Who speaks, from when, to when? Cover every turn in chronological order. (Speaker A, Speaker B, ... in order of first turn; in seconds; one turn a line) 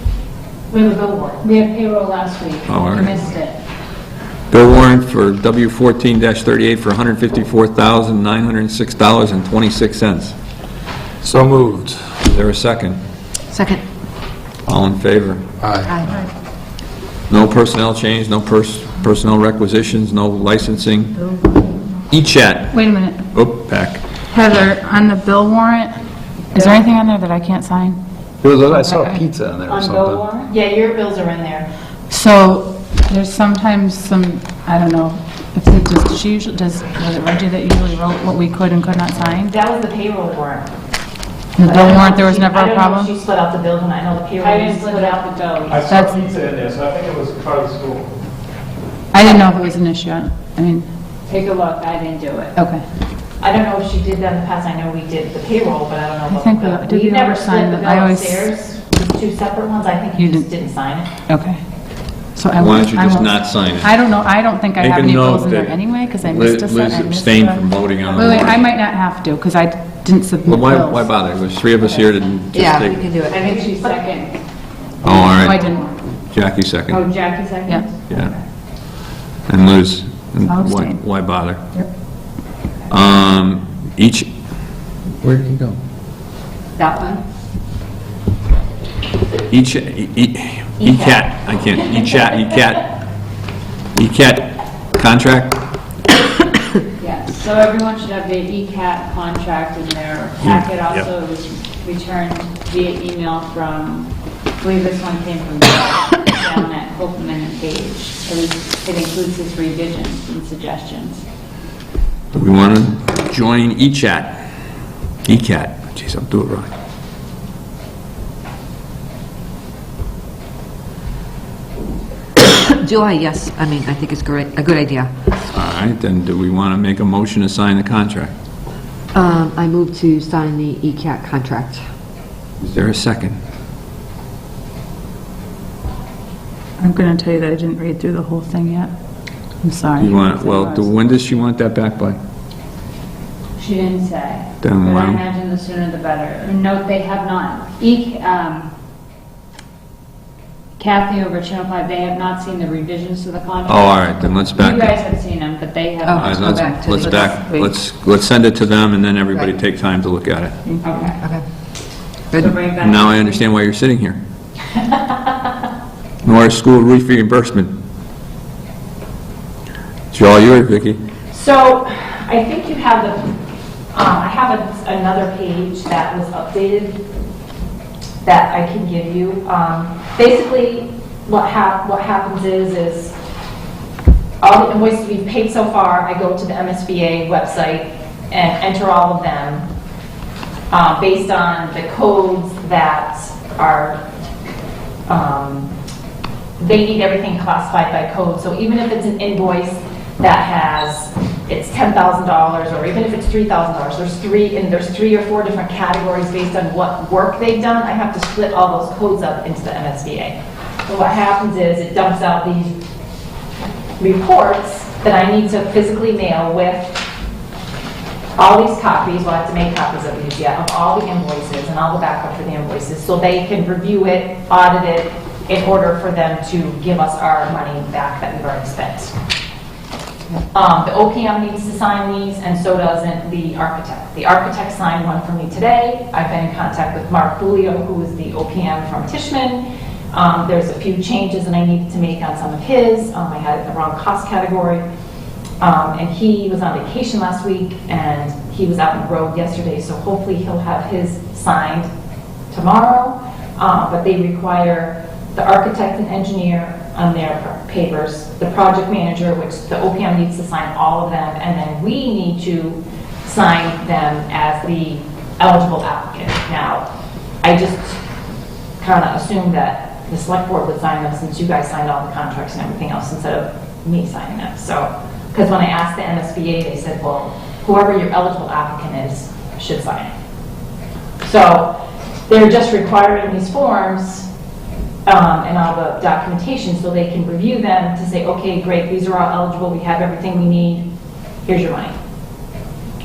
Speaker A: 0.7-1.5
Speaker B: 1.4-3.6
Speaker C: 2.7-3.2
Speaker C: 4.5-10.3
Speaker D: 11.2-12.1
Speaker C: 12.2-13.0
Speaker E: 13.5-13.8
Speaker C: 14.7-15.4
Speaker E: 15.8-16.3
Speaker C: 17.3-21.3
Speaker C: 22.1-24.0
Speaker F: 22.7-23.3
Speaker F: 24.3-25.9
Speaker F: 26.5-28.0
Speaker D: 28.4-30.2
Speaker F: 28.7-29.2
Speaker B: 29.6-30.5
Speaker A: 30.4-31.7
Speaker F: 32.1-39.5
Speaker A: 39.4-40.7
Speaker F: 41.6-43.1
Speaker A: 41.6-45.2
Speaker B: 44.4-45.9
Speaker G: 45.7-48.2
Speaker F: 45.9-46.2
Speaker F: 49.1-50.9
Speaker B: 51.3-52.5
Speaker F: 52.5-52.8
Speaker A: 53.4-61.1
Speaker F: 56.3-58.5
Speaker F: 60.2-60.5
Speaker F: 61.3-61.6
Speaker F: 62.4-71.1
Speaker C: 62.5-63.9
Speaker C: 64.8-68.7
Speaker C: 70.4-73.1
Speaker E: 72.5-73.4
Speaker B: 73.2-74.4
Speaker C: 75.0-75.6
Speaker B: 75.1-76.0
Speaker F: 75.4-75.9
Speaker C: 76.3-77.0
Speaker B: 76.9-78.3
Speaker C: 78.0-78.3
Speaker C: 79.5-81.6
Speaker F: 80.4-81.0
Speaker C: 82.9-84.3
Speaker C: 85.2-85.8
Speaker E: 86.8-87.2
Speaker C: 89.5-92.9
Speaker E: 90.8-91.2
Speaker C: 93.9-95.6
Speaker B: 97.0-111.2
Speaker C: 100.4-101.1
Speaker C: 112.3-114.4
Speaker C: 115.2-116.7
Speaker E: 122.4-125.1
Speaker C: 125.5-128.3
Speaker E: 129.1-131.8
Speaker C: 132.6-133.4
Speaker F: 136.8-138.9
Speaker F: 139.6-140.9
Speaker C: 139.9-142.2
Speaker B: 143.6-148.7
Speaker C: 144.6-145.2
Speaker B: 150.8-156.9
Speaker C: 153.7-155.0
Speaker E: 156.0-157.3
Speaker C: 156.2-160.6
Speaker F: 157.0-157.7
Speaker F: 160.6-161.1
Speaker B: 160.8-161.2
Speaker B: 162.3-163.4
Speaker C: 162.8-164.2
Speaker A: 164.9-165.3
Speaker C: 166.2-167.7
Speaker C: 170.1-171.0
Speaker A: 171.3-173.3
Speaker A: 173.9-177.0
Speaker A: 178.2-183.1
Speaker A: 184.4-189.7
Speaker A: 190.7-194.0
Speaker A: 195.1-195.7
Speaker A: 196.6-212.8
Speaker A: 214.0-217.0
Speaker A: 218.4-229.1
Speaker A: 230.5-244.8
Speaker A: 245.6-251.9
Speaker A: 252.5-266.8
Speaker A: 267.4-268.0
Speaker A: 268.8-280.1
Speaker A: 281.2-281.7
Speaker A: 282.3-284.3
Speaker A: 285.1-290.9
Speaker A: 291.4-291.9